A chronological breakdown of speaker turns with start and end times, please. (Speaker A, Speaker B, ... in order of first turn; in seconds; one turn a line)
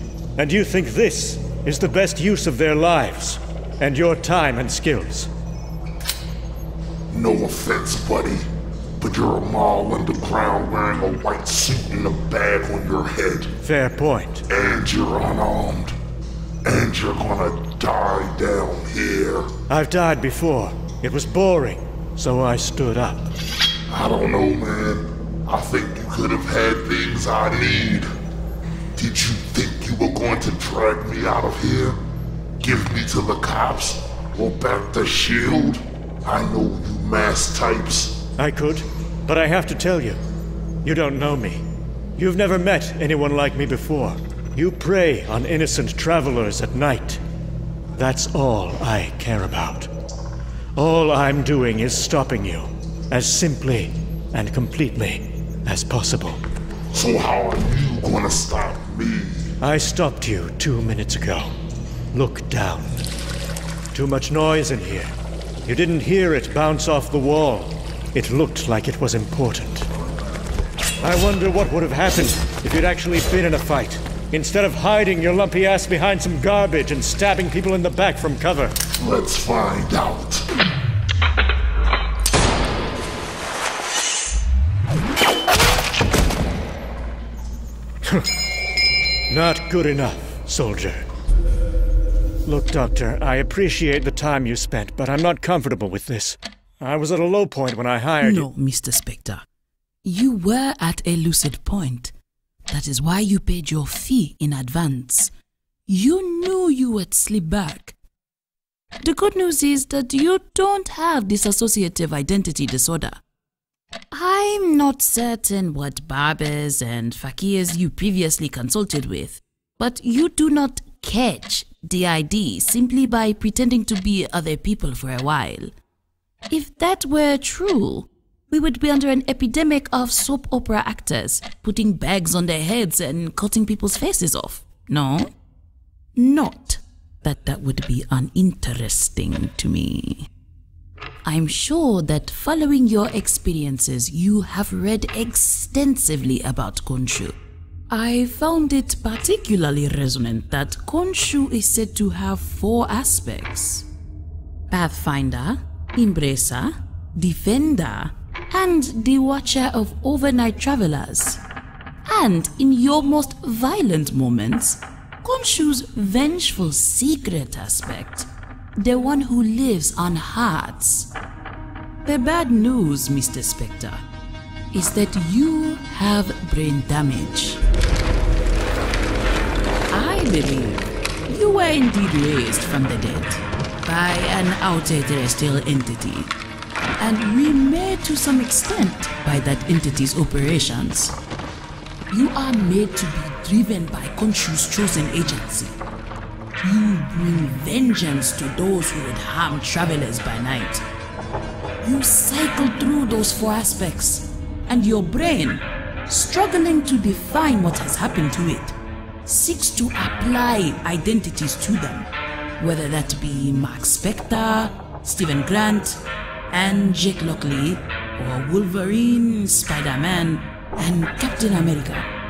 Speaker A: 0.4-5.3
Speaker B: 7.1-8.5
Speaker B: 9.0-13.5
Speaker A: 13.6-14.4
Speaker B: 14.5-16.0
Speaker B: 16.6-19.5
Speaker A: 19.7-23.3
Speaker B: 23.9-28.1
Speaker B: 28.9-32.0
Speaker B: 32.6-38.2
Speaker A: 38.4-40.2
Speaker A: 40.8-41.6
Speaker A: 42.2-47.2
Speaker A: 48.0-49.9
Speaker A: 50.8-56.4
Speaker B: 56.9-59.5
Speaker A: 59.6-61.5
Speaker A: 62.1-63.1
Speaker A: 63.9-65.1
Speaker A: 65.7-69.9
Speaker A: 71.0-78.8
Speaker B: 79.0-80.5
Speaker A: 89.3-91.1
Speaker A: 92.5-98.5
Speaker C: 98.2-99.5
Speaker C: 100.0-102.1
Speaker C: 102.7-105.3
Speaker C: 105.9-108.0
Speaker C: 109.0-113.2
Speaker C: 114.1-125.7
Speaker C: 126.5-135.3
Speaker C: 136.2-140.3
Speaker C: 141.2-147.4
Speaker C: 147.9-153.9
Speaker C: 154.7-161.4
Speaker C: 162.1-171.1
Speaker C: 172.1-174.0
Speaker C: 174.7-177.6
Speaker C: 179.9-186.3
Speaker C: 187.0-191.2
Speaker C: 192.1-195.8
Speaker C: 196.6-200.8
Speaker C: 201.8-212.1
Speaker C: 212.6-222.1